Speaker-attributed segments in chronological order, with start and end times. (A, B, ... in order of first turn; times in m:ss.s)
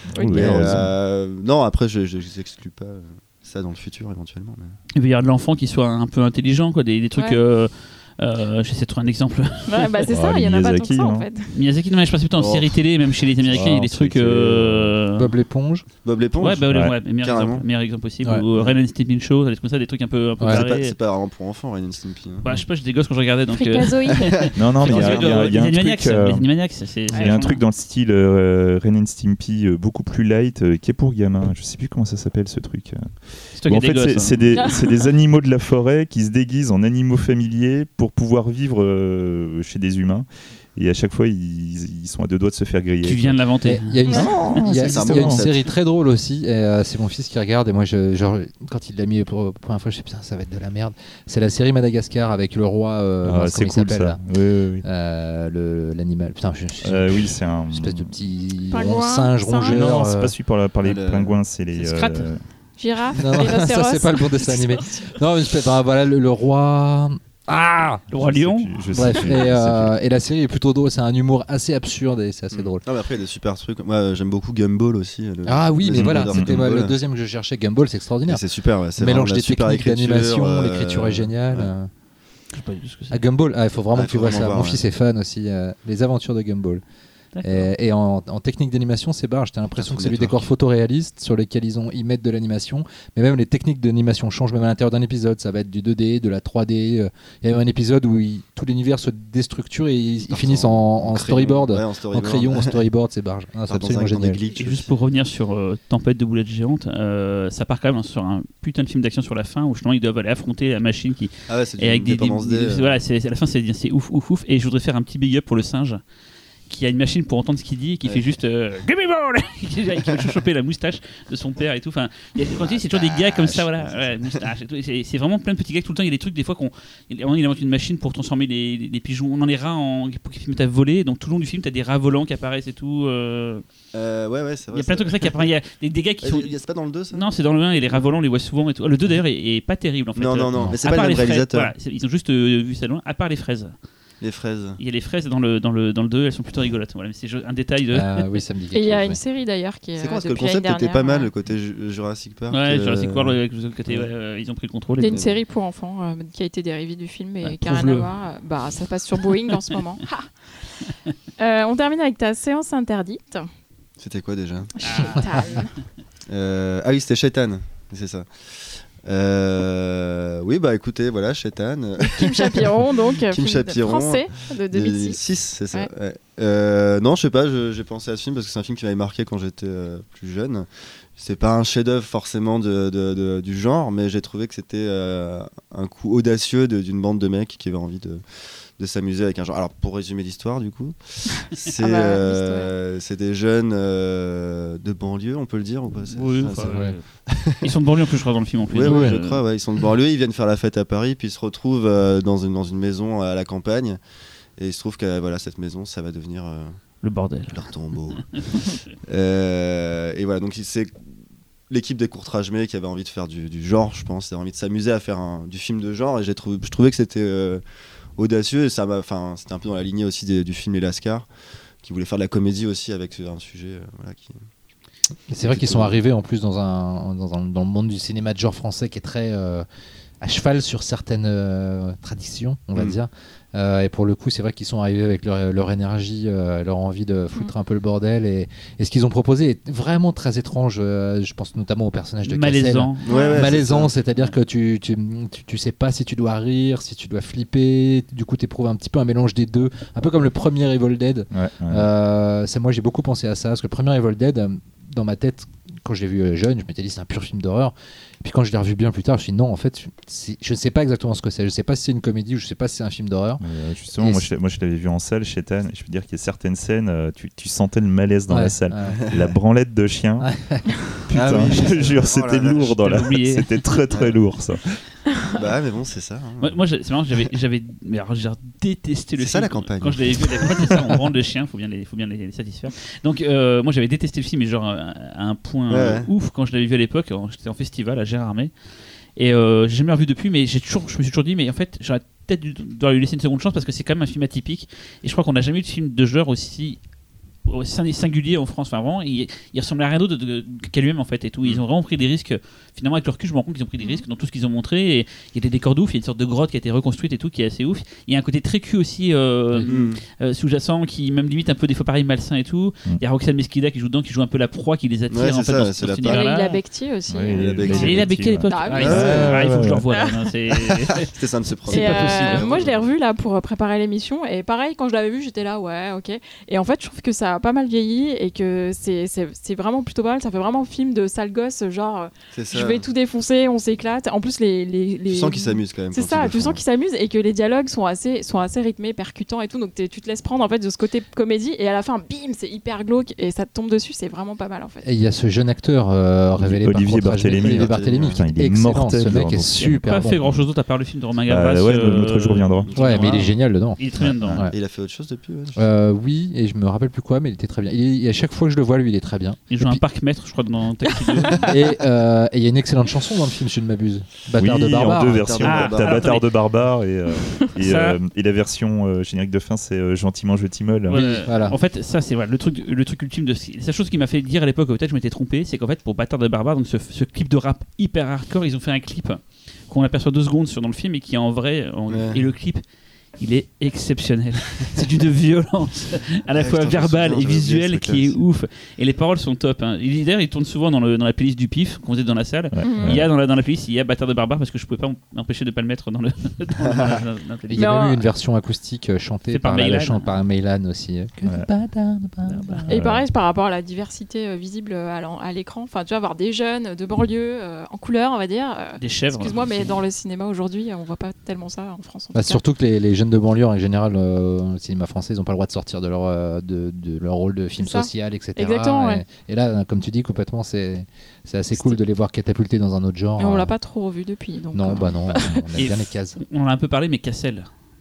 0:00.2-0:00.7 A
0:00.2-0:00.9 B
0:00.3-0:04.8 C
0:05.0-0:09.9 D
0:09.7-0:11.5 A
0:10.1-0:11.3 B
0:11.5-0:15.3 D
0:12.4-0:12.8 C
0:13.5-0:15.0 B
0:15.2-0:15.9 E
0:16.0-0:17.7 C
0:16.4-0:21.0 D
0:16.7-0:17.0 B
0:20.4-0:22.5 C
0:22.4-0:27.6 D
0:23.5-0:24.5 A
0:24.4-0:25.6 C
0:24.6-0:26.4 B
0:27.1-0:27.5 A
0:27.1-0:43.4 B
0:33.6-0:34.6 D
0:34.5-0:35.0 A
0:43.0-0:44.0 D
0:43.6-0:54.2 E
0:44.1-0:44.3 A
0:44.1-0:45.4 B
0:44.6-0:45.7 C
0:53.2-0:54.8 B
0:54.8-1:00.4 E
0:56.8-0:58.1 B
0:58.7-0:59.9 A
0:59.7-1:02.4 B
1:00.8-1:01.4 C
1:01.8-1:02.3 D
1:02.8-1:05.1 A
1:03.2-1:07.2 E
1:07.5-1:08.7 D
1:08.1-1:09.9 B
1:08.9-1:12.8 E
1:12.5-1:17.0 C
1:15.5-1:18.4 E
1:16.0-1:16.6 B
1:18.3-1:21.7 C
1:19.0-1:21.9 E
1:22.5-1:23.2 D
1:23.1-1:26.8 E
1:23.9-1:24.8 C
1:27.4-1:27.7 D
1:27.4-1:44.4 E
1:29.8-1:30.5 C
1:40.3-1:42.8 C
1:43.7-1:44.9 C
1:44.5-1:56.0 D
1:51.5-1:53.0 C
1:56.7-2:13.6 D
2:00.0-2:00.3 C
2:02.4-2:04.5 C
2:13.9-2:15.5 C
2:14.7-2:16.6 D
2:16.2-2:17.3 C
2:17.1-2:23.7 D
2:20.2-2:21.7 C
2:24.2-2:24.8 C
2:24.8-2:28.3 D
2:27.9-2:29.2 E
2:28.7-2:31.3 A
2:30.0-2:34.1 C
2:32.5-2:35.3 D
2:35.0-2:40.3 A
2:35.1-2:35.4 C
2:37.4-2:38.1 D
2:41.4-2:43.5 A
2:44.0-2:44.7 C
2:44.8-2:45.7 D
2:44.8-2:45.7 A
2:46.3-3:08.2 C
2:52.0-2:55.2 A
3:08.8-3:17.7 C
3:11.8-3:12.7 A
3:16.1-3:17.0 D
3:16.7-3:17.0 E
3:17.6-3:19.4 D
3:18.7-3:24.0 C
3:18.8-3:19.2 E
3:24.6-3:26.8 C
3:27.0-3:28.6 D
3:27.5-3:31.0 C
3:31.7-3:37.6 C
3:38.2-3:41.3 C
3:41.8-3:44.4 C
3:45.3-3:49.7 E
3:45.4-3:46.0 C
3:50.2-4:23.4 E
4:02.3-4:03.1 D
4:03.0-4:03.9 C
4:03.1-4:03.5 A
4:11.3-4:11.9 B
4:23.4-4:30.3 B
4:24.0-4:24.3 E
4:28.3-4:29.0 E
4:28.9-4:29.2 C
4:30.2-4:30.7 E
4:31.1-4:34.8 B
4:31.1-4:32.8 C
4:32.6-4:33.6 D
4:33.9-4:34.2 C
4:35.3-4:36.6 C
4:36.4-4:48.5 D
4:39.2-4:40.7 C
4:45.7-4:46.1 C
4:49.2-4:56.8 D
4:57.5-5:16.6 D
5:03.8-5:04.0 A
5:09.6-5:10.0 C
5:15.1-5:16.3 C
5:16.0-5:19.3 A
5:17.1-5:19.8 B
5:17.3-5:18.1 C
5:17.7-5:22.5 D
5:18.7-5:19.5 C
5:20.6-5:22.9 C
5:21.7-5:44.8 A
5:32.3-5:32.9 C
5:35.1-5:36.6 C
5:44.8-5:50.3 E
5:46.4-5:49.6 B
5:47.3-5:48.2 C
5:49.6-5:54.4 D
5:51.3-5:52.7 B
5:52.7-5:53.3 C
5:52.8-5:53.8 E
5:54.0-5:54.4 B
5:54.5-5:55.7 C
5:55.6-5:59.8 E
5:59.5-6:01.6 D
6:01.4-6:05.4 E
6:04.4-6:11.0 B
6:05.2-6:06.2 C
6:05.4-6:06.3 D
6:07.2-6:07.5 A
6:07.6-6:08.0 D
6:10.9-6:22.6 D
6:10.9-6:11.6 E
6:21.9-6:22.3 C
6:23.2-6:37.8 D
6:26.3-6:28.2 C
6:32.5-6:33.1 B
6:32.6-6:33.0 A
6:36.6-6:37.0 C
6:37.5-6:42.7 E
6:37.6-6:38.0 A
6:39.3-6:40.2 D
6:42.3-6:42.7 D
6:42.7-6:52.4 A
6:42.7-6:43.1 B
6:48.8-6:49.8 D
6:52.1-7:03.6 E
6:57.6-6:59.0 A
7:03.2-7:05.3 A
7:04.5-7:06.2 E
7:05.6-7:07.5 D